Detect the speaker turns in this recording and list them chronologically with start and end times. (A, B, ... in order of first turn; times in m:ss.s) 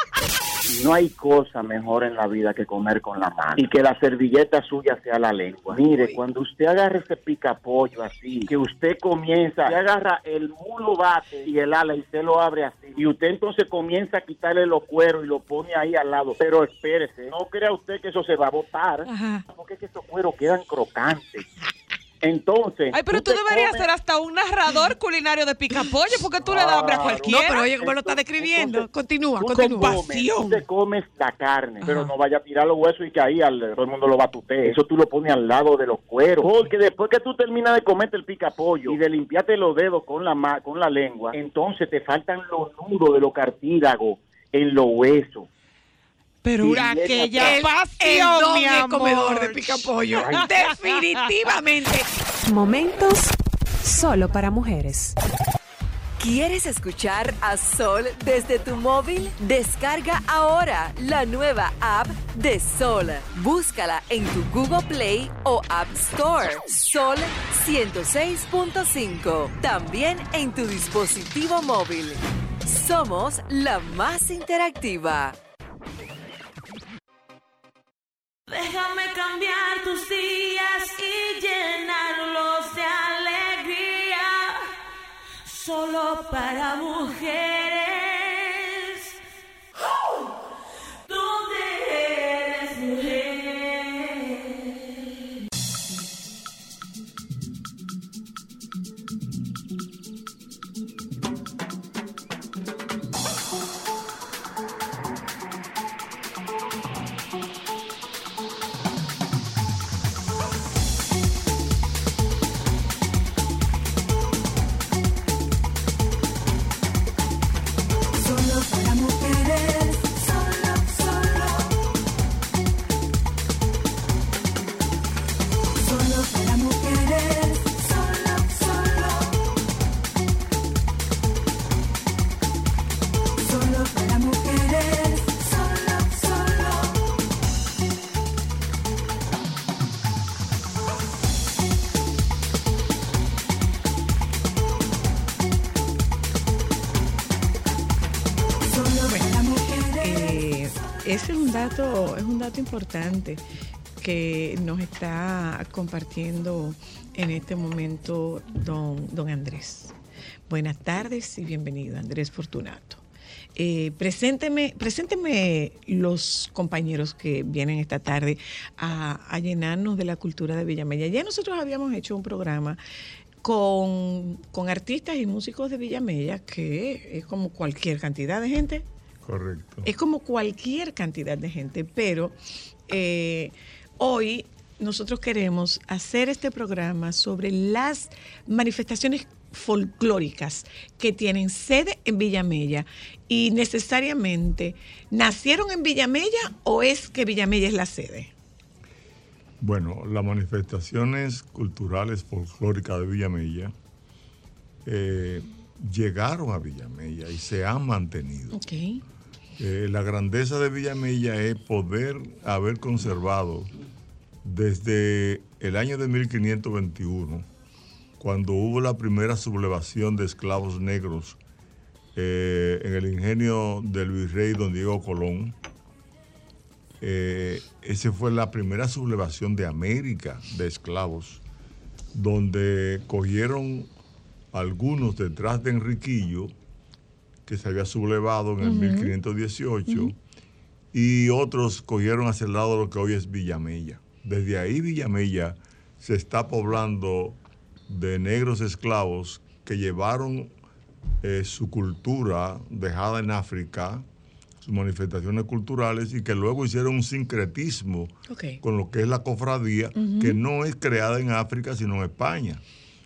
0:00.7-0:21.5 A
0:19.1-0:19.4 B
0:22.2-0:23.8 A
0:22.9-0:27.9 C
0:26.5-0:27.2 A
0:27.2-0:30.4 B
0:29.6-0:30.4 C
0:29.7-0:45.5 A
0:46.4-0:49.7 C
0:46.6-0:47.6 A
0:47.3-0:52.1 B
0:52.4-0:53.3 D
0:53.8-0:55.2 D
0:56.2-1:15.4 E
1:18.5-1:24.7 F
1:25.4-1:29.1 F
1:31.1-1:34.9 F
2:28.9-2:33.4 B
2:34.0-2:39.9 B
2:40.5-2:43.0 B
2:43.6-2:52.8 B
2:53.4-2:58.8 B
2:59.2-2:59.9 G
2:59.8-3:02.4 B
3:02.9-3:18.3 B
3:19.6-3:23.7 G
3:24.8-3:28.6 G
3:28.5-3:29.0 B
3:29.6-3:33.7 G
3:34.4-3:37.4 G
3:38.2-3:41.4 G
3:42.2-3:45.5 G
3:47.0-3:51.4 G
3:52.1-3:53.9 G
3:54.5-3:56.5 G
3:57.4-4:00.1 G
3:58.6-3:59.1 B
4:00.9-4:07.4 G
4:07.9-4:10.5 G
4:11.2-4:14.0 G
4:14.6-4:22.6 G
4:18.3-4:18.6 B
4:19.9-4:20.4 B